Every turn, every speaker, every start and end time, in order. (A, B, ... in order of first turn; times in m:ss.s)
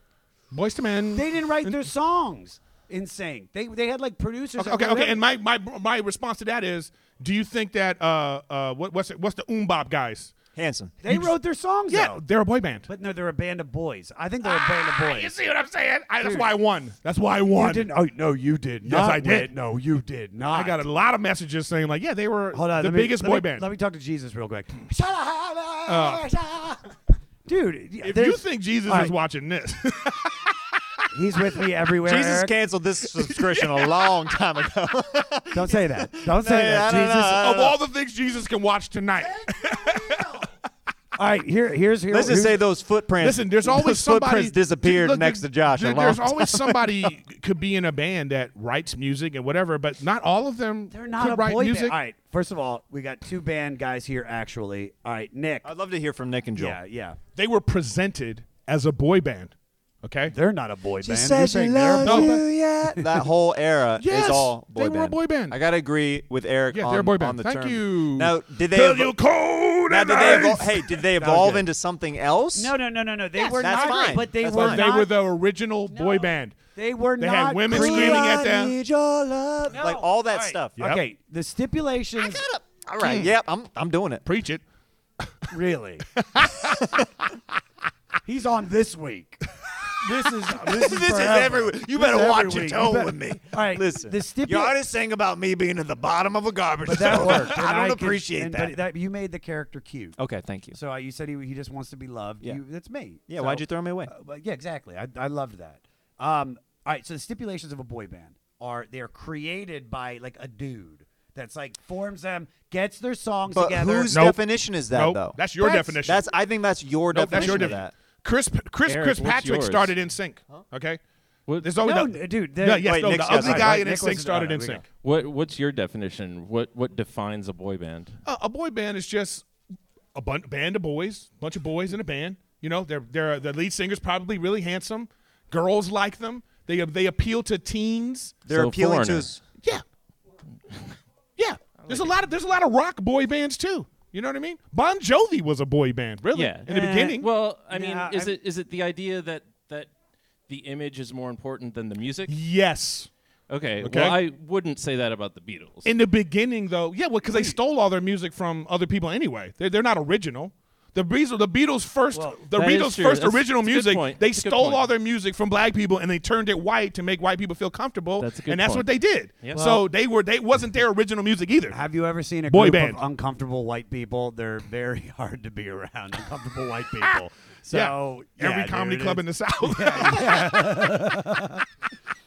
0:00.5-0:01.8 A
0:01.1-0:05.2 B
0:04.6-0:10.4 A
0:10.6-0:11.0 C
0:11.0-0:12.2 B
0:11.0-0:11.3 A
0:11.9-0:12.9 A
0:12.9-0:15.3 B
0:14.4-0:17.9 A
0:16.2-0:16.5 B
0:17.5-0:20.8 B
0:18.8-0:19.5 A
0:20.5-0:23.7 A
0:22.5-0:26.8 B
0:25.9-0:26.3 A
0:27.4-0:29.1 B
0:28.0-0:30.5 A
0:31.1-0:32.5 B
0:32.0-0:37.8 C
0:33.2-0:34.1 A
0:35.5-0:37.5 B
0:37.4-0:40.3 A
0:39.6-0:40.4 B
0:41.2-0:42.6 B
0:42.1-0:47.2 C
0:43.2-0:52.0 A
0:50.9-0:55.7 B
0:55.6-0:56.8 C
0:56.6-0:57.2 B
0:57.4-1:00.4 A
1:00.3-1:03.2 B
1:01.0-1:09.2 C
1:02.0-1:02.4 A
1:04.0-1:05.6 A
1:06.7-1:11.0 A
1:09.9-1:12.8 C
1:11.2-1:11.7 B
1:12.6-1:15.2 B
1:13.4-1:16.6 A
1:13.5-1:14.9 C
1:16.0-1:18.5 B
1:17.2-1:18.8 A
1:17.7-1:20.8 C
1:19.7-1:22.4 B
1:22.2-1:24.3 C
1:23.0-1:23.3 A
1:24.2-1:24.6 A
1:25.5-1:26.1 B
1:26.2-1:26.8 A
1:28.2-1:29.4 B
1:30.0-1:34.8 B
1:30.6-1:38.8 C
1:36.9-1:40.2 B
1:40.2-1:40.8 C
1:40.7-1:54.2 B
1:43.3-1:44.1 C
1:53.5-1:57.9 C
1:54.1-1:56.2 A
1:55.6-1:56.0 B
1:57.1-2:01.0 A
1:57.4-1:57.7 B
1:58.9-2:00.0 D
2:01.5-2:01.7 D
2:01.6-2:04.8 A
2:01.8-2:04.8 B
2:02.8-2:03.8 C
2:05.0-2:08.2 D
2:08.2-2:09.5 A
2:10.2-2:18.4 A
2:18.5-2:19.4 C
2:18.5-2:19.3 D
2:21.4-2:27.3 A
2:21.8-2:22.1 D
2:26.3-2:29.9 D
2:26.6-2:28.4 B
2:30.5-2:32.3 D
2:32.3-2:33.1 A
2:33.5-2:35.9 D
2:33.8-2:34.2 A
2:35.8-2:51.8 A
2:37.2-2:37.6 B
2:42.1-2:42.5 B
2:42.5-2:44.9 D
2:48.2-2:48.9 D
2:49.5-2:49.9 B
2:51.7-3:01.6 B
2:52.5-2:53.0 A
2:57.7-3:00.7 A